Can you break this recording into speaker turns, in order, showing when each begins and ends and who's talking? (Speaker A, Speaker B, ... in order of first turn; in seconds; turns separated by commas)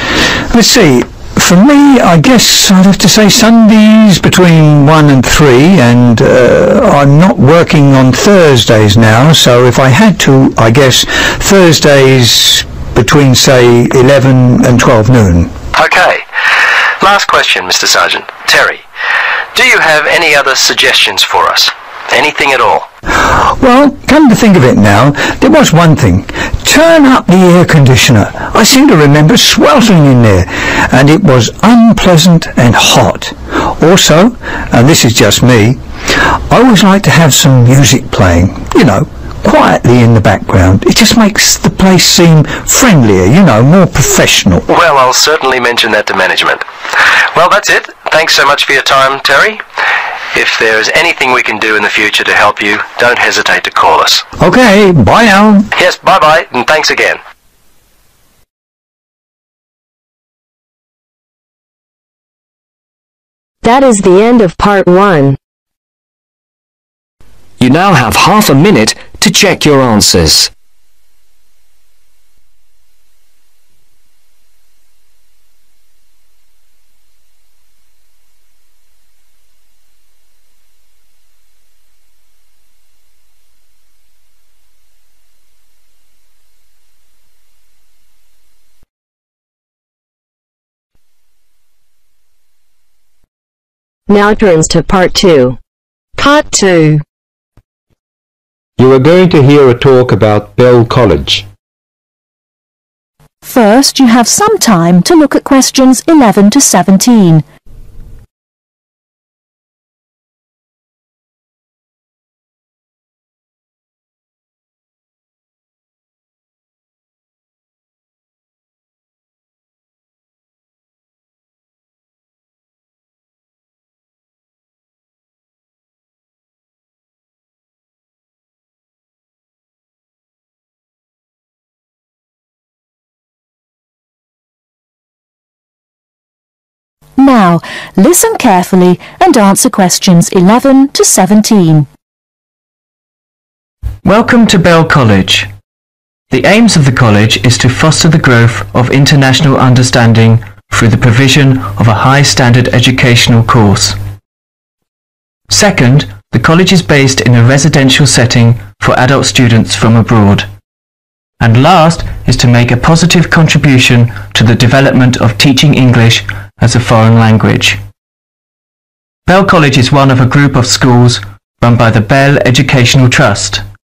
Speaker A: 0.5-15.5, Speaker B: 15.7-16.2, Speaker B: 17.0-18.8, Speaker B: 19.5-22.9, Speaker A: 23.2-44.6, Speaker B: 44.7-46.6, Speaker B: 47.3-49.6, Speaker B: 50.3-54.2, Speaker A: 54.4-55.7, Speaker B: 55.8-57.2, Speaker C: 63.6-65.4, Speaker D: 67.6-70.5, Speaker C: 94.1-95.6, Speaker C: 96.2-97.0, Speaker E: 98.8-101.4, Speaker F: 103.4-107.4, Speaker F: 137.2-141.9, Speaker G: 144.0-145.5, Speaker G: 146.3-154.0, Speaker G: 155.5-160.5, Speaker G: 161.4-167.8, Speaker G: 169.3-173.6